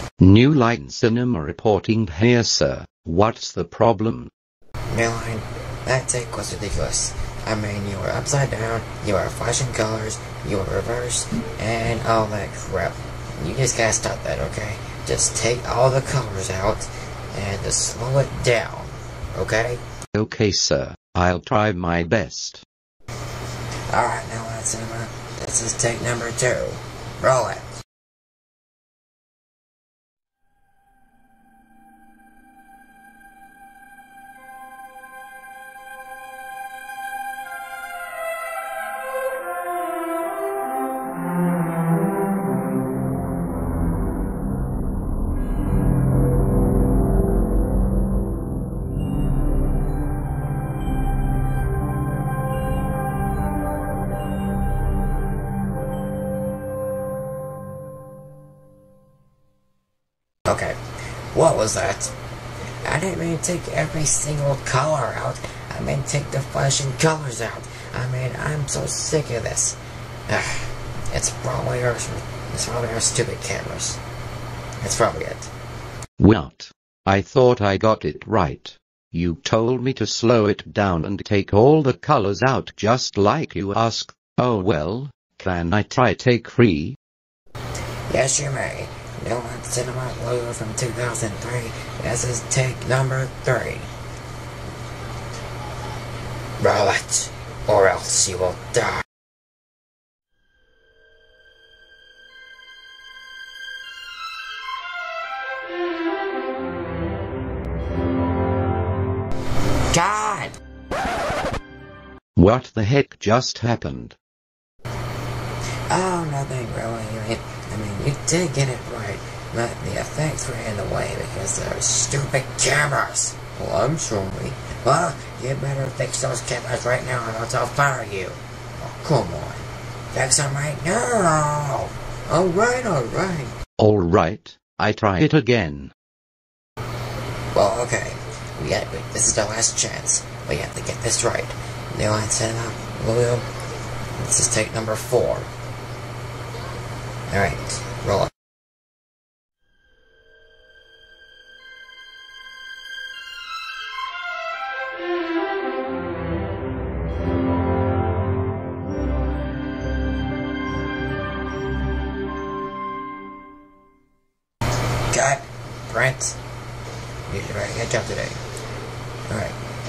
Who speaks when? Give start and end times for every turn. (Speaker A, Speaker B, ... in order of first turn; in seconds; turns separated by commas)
Speaker A: 0.2-4.3, Speaker B: 4.9-19.8, Speaker A: 20.1-22.6, Speaker B: 23.9-27.8, Speaker B: 60.5-60.8, Speaker B: 61.3-62.1, Speaker B: 62.8-69.8, Speaker B: 70.3-74.0, Speaker B: 74.8-75.5, Speaker A: 76.2-87.0, Speaker B: 88.1-93.9, Speaker B: 96.6-99.0, Speaker B: 109.9-110.5, Speaker A: 112.3-114.2, Speaker B: 115.9-133.5, Speaker A: 133.8-135.9, Speaker B: 137.5-143.5, Speaker B: 144.1-145.5, Speaker B: 147.3-148.3, Speaker B: 165.1-166.4, Speaker B: 167.3-168.4, Speaker B: 169.3-169.6